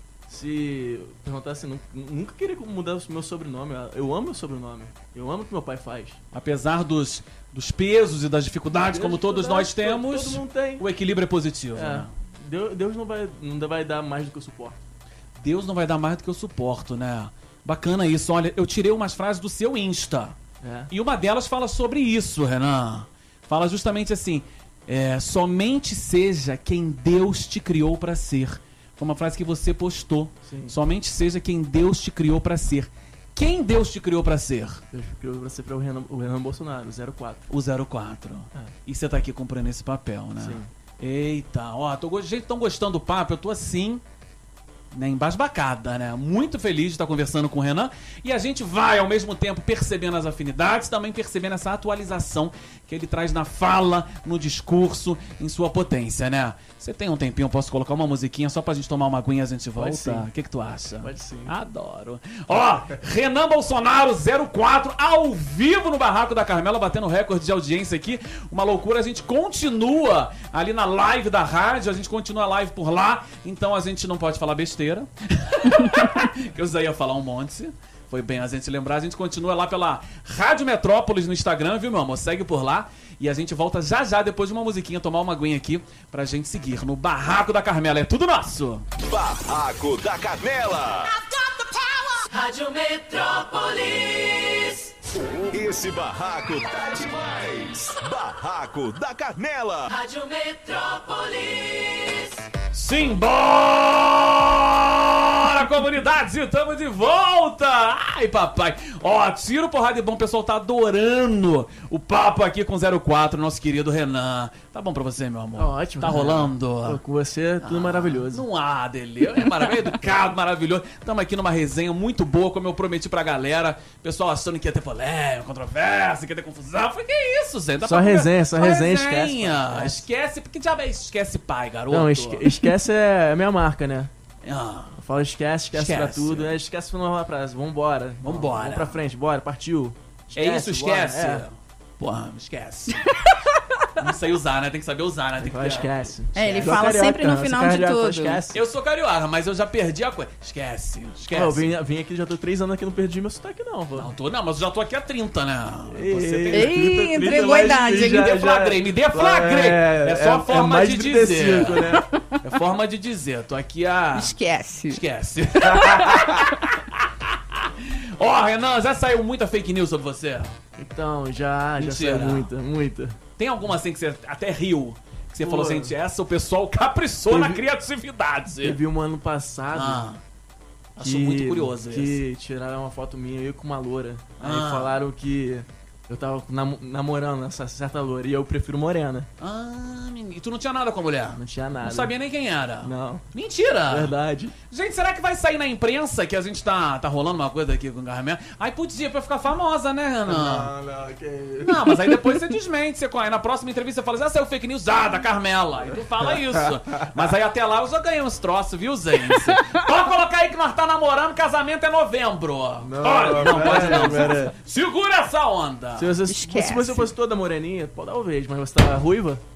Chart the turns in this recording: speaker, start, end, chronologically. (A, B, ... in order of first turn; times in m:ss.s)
0:00.3-0:06.2 A
0:06.3-0:12.1 B
0:08.9-0:10.8 A
0:11.7-0:14.8 A
0:15.4-0:20.4 B
0:20.6-0:20.9 A
0:20.9-0:34.8 B
0:30.4-0:30.8 A
0:34.9-0:37.5 A
0:37.5-0:44.0 B
0:40.4-0:40.7 A
0:44.9-1:28.9 B
0:59.8-1:00.2 A
1:01.0-1:01.5 A
1:29.0-1:31.1 C
1:31.4-1:34.9 D
1:35.3-1:39.9 C
1:39.9-1:42.4 D
1:42.7-1:57.0 B
1:55.6-1:58.4 A
1:57.6-2:12.5 B
2:07.8-2:10.0 A
2:11.9-2:14.1 A
2:14.4-2:15.0 B
2:15.0-2:21.4 A
2:15.7-2:16.6 B
2:18.2-2:19.0 B
2:20.3-2:23.1 B
2:24.0-2:26.7 B
2:25.4-2:28.6 A
2:26.3-2:28.4 E
2:28.5-2:31.7 B
2:31.3-2:34.1 A
2:34.0-2:44.4 B
2:35.9-2:42.1 A
2:36.5-2:38.3 E
2:42.1-2:42.4 E
2:44.1-2:45.0 E
2:44.9-2:50.6 B
2:45.7-2:46.4 E
2:50.8-2:53.2 A
2:51.8-2:52.5 B
2:53.4-2:58.8 B
2:55.4-2:55.9 A
2:57.3-2:57.6 A
2:58.6-3:00.1 A
2:59.7-3:00.2 B
3:01.0-3:02.2 B
3:01.0-3:09.3 A
3:04.4-3:05.0 B
3:09.4-3:14.1 B
3:11.3-3:12.1 A
3:12.8-3:13.2 A
3:13.9-3:14.5 A
3:14.6-3:20.7 B
3:20.3-3:21.7 A
3:21.6-3:36.2 B
3:32.8-3:34.5 A
3:36.0-3:39.4 A
3:36.3-3:37.1 E